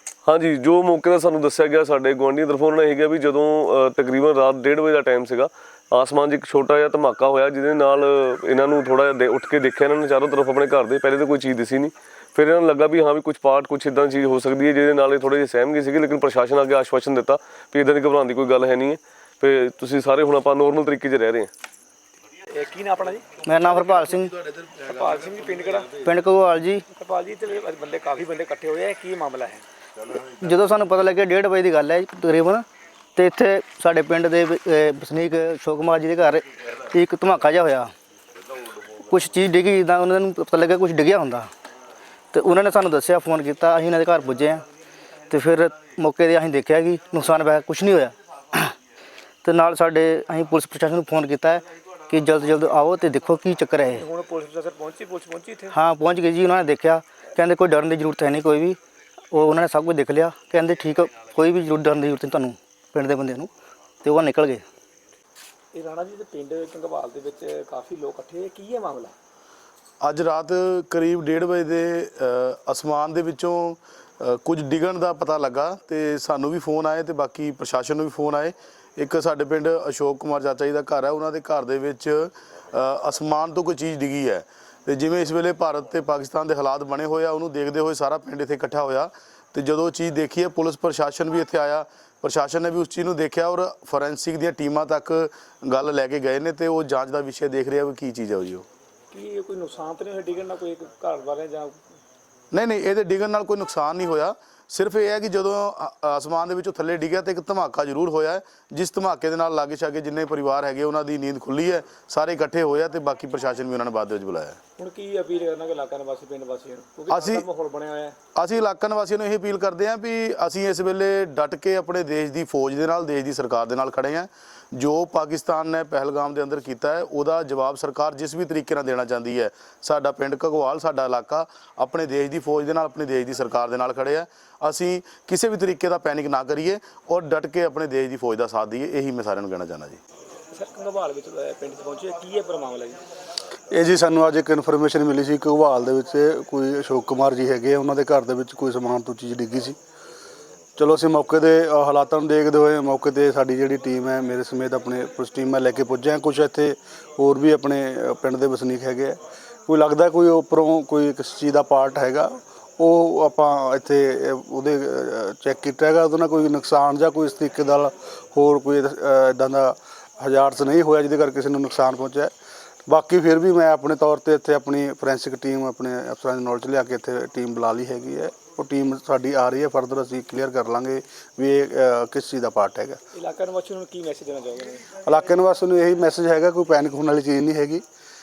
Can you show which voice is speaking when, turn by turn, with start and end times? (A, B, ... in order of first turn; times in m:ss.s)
0:00.3-0:21.5 A
0:22.5-0:23.4 B
0:23.4-0:24.4 C
0:24.7-0:26.0 B
0:26.0-0:26.8 C
0:26.9-0:29.6 B
0:30.4-0:37.9 C
0:39.1-0:41.5 C
0:42.3-0:44.7 C
0:45.3-0:48.8 C
0:49.4-0:54.0 C
0:54.0-0:55.8 B
0:55.7-0:58.8 C
0:59.3-1:03.5 C
1:04.0-1:04.6 C
1:05.7-1:09.1 B
1:10.0-1:38.7 D
1:39.1-1:41.8 B
1:42.5-1:54.6 D
1:54.8-1:58.2 B
1:57.1-1:57.5 D
1:58.4-2:20.0 D
2:20.5-2:23.0 B
2:23.7-2:29.8 E
2:30.8-2:52.3 E
2:52.9-3:03.0 E
3:03.1-3:05.0 B
3:05.1-3:07.8 E